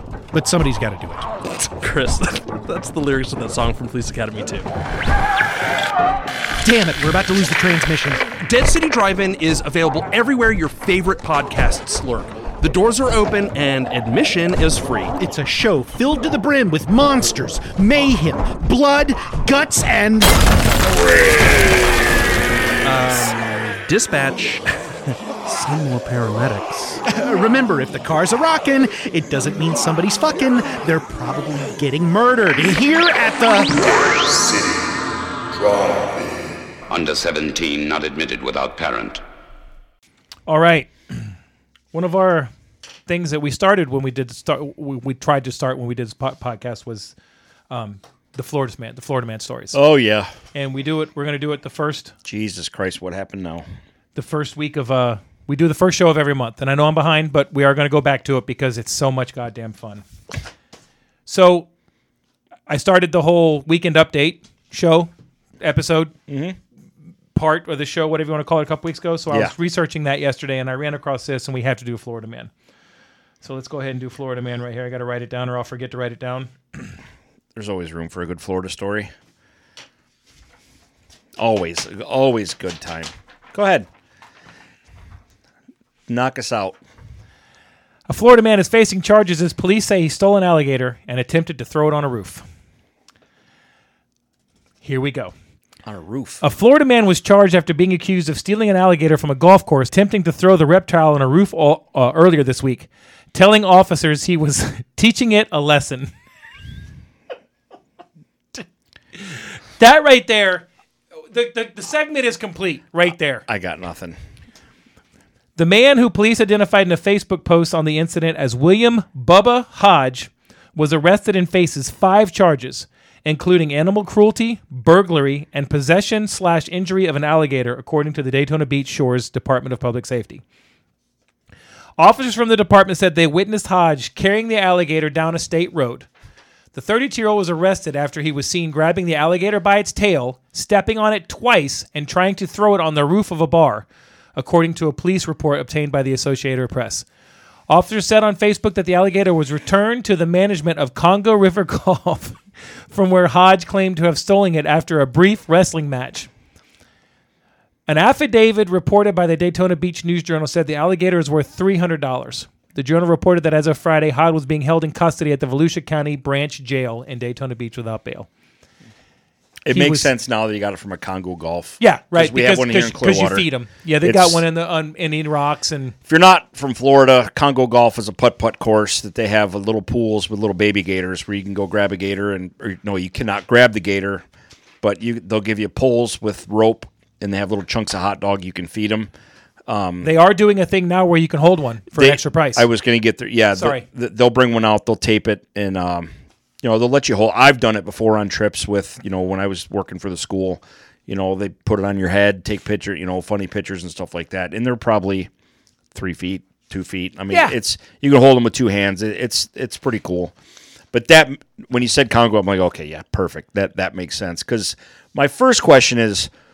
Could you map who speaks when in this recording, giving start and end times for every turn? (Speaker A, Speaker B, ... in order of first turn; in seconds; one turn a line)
Speaker A: 0.3-1.3
Speaker B: 1.6-4.7
Speaker A: 6.6-8.3
Speaker B: 8.4-15.2
Speaker A: 15.2-20.4
Speaker B: 22.8-24.6
Speaker B: 25.4-27.0
Speaker A: 27.1-33.7
Speaker C: 33.9-39.2
Speaker D: 40.5-41.3
Speaker D: 41.9-42.5
Speaker D: 43.1-47.1
Speaker D: 47.7-49.8
Speaker E: 49.7-50.3
Speaker D: 50.5-52.1
Speaker E: 52.2-53.6
Speaker D: 54.1-60.0
Speaker D: 61.3-61.7
Speaker D: 62.7-66.1
Speaker E: 66.3-66.6
Speaker D: 67.3-72.5
Speaker D: 73.4-76.9
Speaker E: 77.5-79.1
Speaker E: 81.4-83.9
Speaker E: 86.1-86.8
Speaker D: 88.1-92.5
Speaker D: 94.8-95.3
Speaker E: 95.9-96.4
Speaker D: 96.4-106.1
Speaker D: 109.2-110.7
Speaker D: 111.3-113.5
Speaker E: 113.5-114.2
Speaker D: 115.6-130.4
Speaker D: 132.0-136.1
Speaker D: 136.7-147.1
Speaker D: 147.7-152.4
Speaker D: 152.9-156.3
Speaker D: 157.9-168.3
Speaker E: 169.6-173.5
Speaker D: 169.7-170.1
Speaker D: 171.8-175.9
Speaker E: 174.0-174.4
Speaker E: 176.1-184.2
Speaker E: 184.8-189.1
Speaker E: 189.7-190.1
Speaker D: 190.0-192.7
Speaker E: 191.9-196.1
Speaker D: 193.6-193.8
Speaker E: 196.6-205.3
Speaker E: 205.9-210.3
Speaker D: 207.3-207.6
Speaker E: 210.9-216.3